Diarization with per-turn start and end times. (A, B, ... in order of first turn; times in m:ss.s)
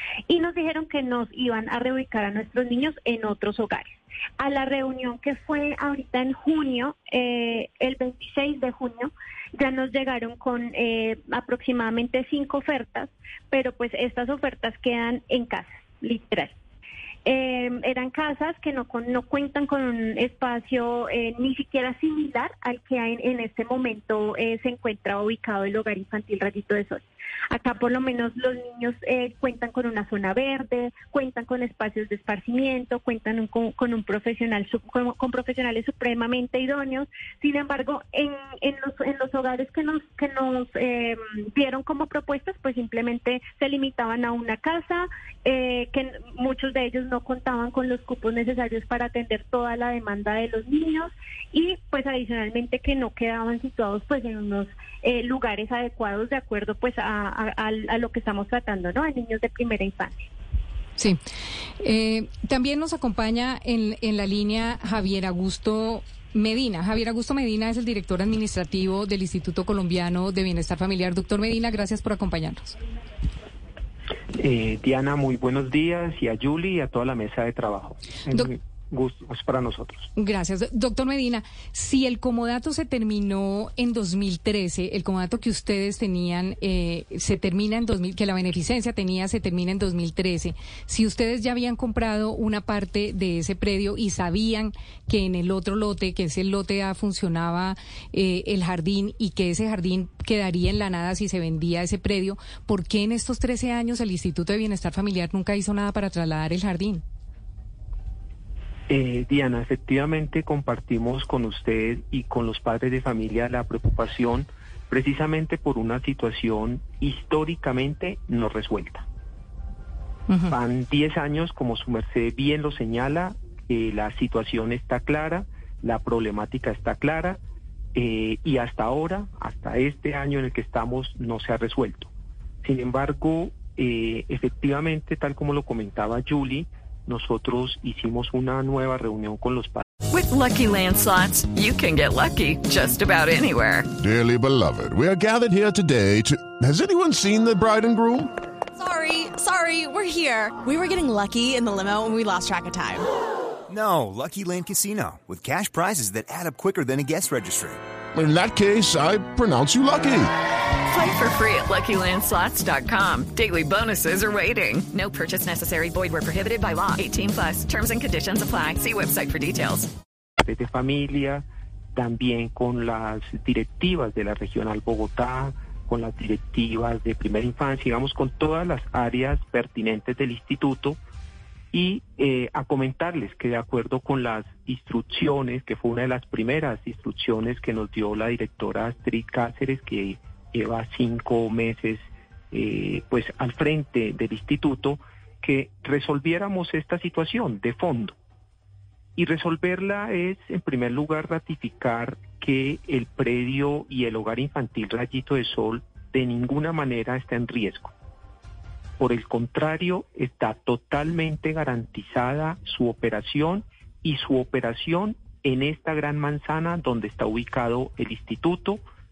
0:00.3-0:16.5 A
0:17.2-1:00.2 A
1:01.8-1:12.7 B
1:14.4-1:20.1 C
1:20.2-1:47.0 B
1:48.9-1:59.0 C
2:00.5-2:07.4 C
2:07.9-2:12.1 C
2:12.6-2:19.8 C
2:20.1-2:23.9 D
2:24.0-2:28.3 E
2:28.8-2:33.0 F
2:33.7-2:37.8 G
2:38.1-2:40.3 E
2:40.9-2:49.9 D
2:50.4-3:01.0 C
3:01.7-3:18.1 C
3:19.2-3:27.9 C
3:29.0-3:38.8 C